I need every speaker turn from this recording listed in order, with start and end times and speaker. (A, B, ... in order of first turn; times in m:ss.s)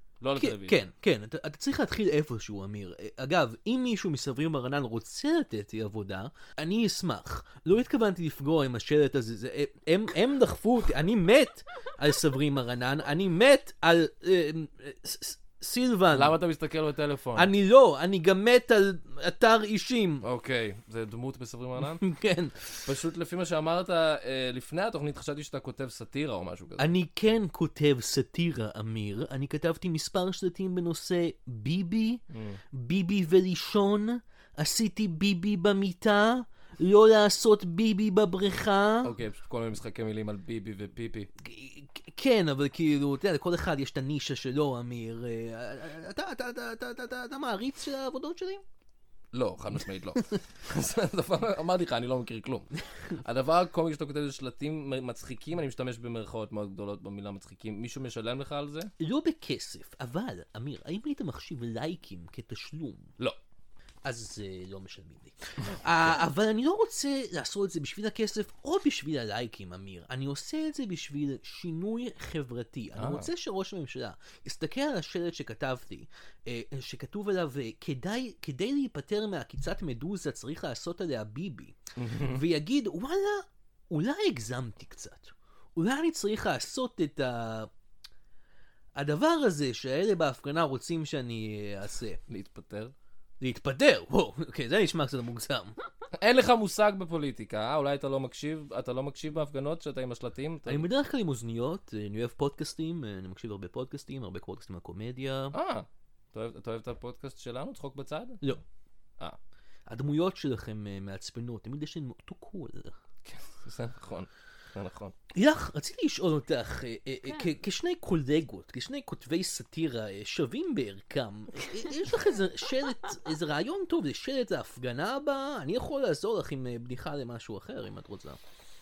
0:00.2-0:00.8 A
0:00.4-0:16.4 B
0:16.1-0:17.5 A
0:17.4-0:20.2 B
0:20.2-0:22.1 A
0:21.8-0:22.7 B
0:22.8-0:26.9 A
0:26.8-0:39.1 B
0:32.3-0:32.6 A
0:39.0-0:41.3 A
0:41.4-0:48.6 B
0:49.3-0:58.9 A
0:59.0-1:03.1 B
1:04.0-1:27.7 B
1:13.0-1:13.3 A
1:22.0-1:22.4 A
1:28.9-1:32.2 B
1:32.3-1:32.9 A
1:33.4-1:35.8 B
1:36.1-1:40.9 A
1:40.6-1:45.6 B
1:45.5-1:48.5 A
1:49.9-1:52.9 B
1:53.2-1:55.1 A
1:55.3-2:08.4 B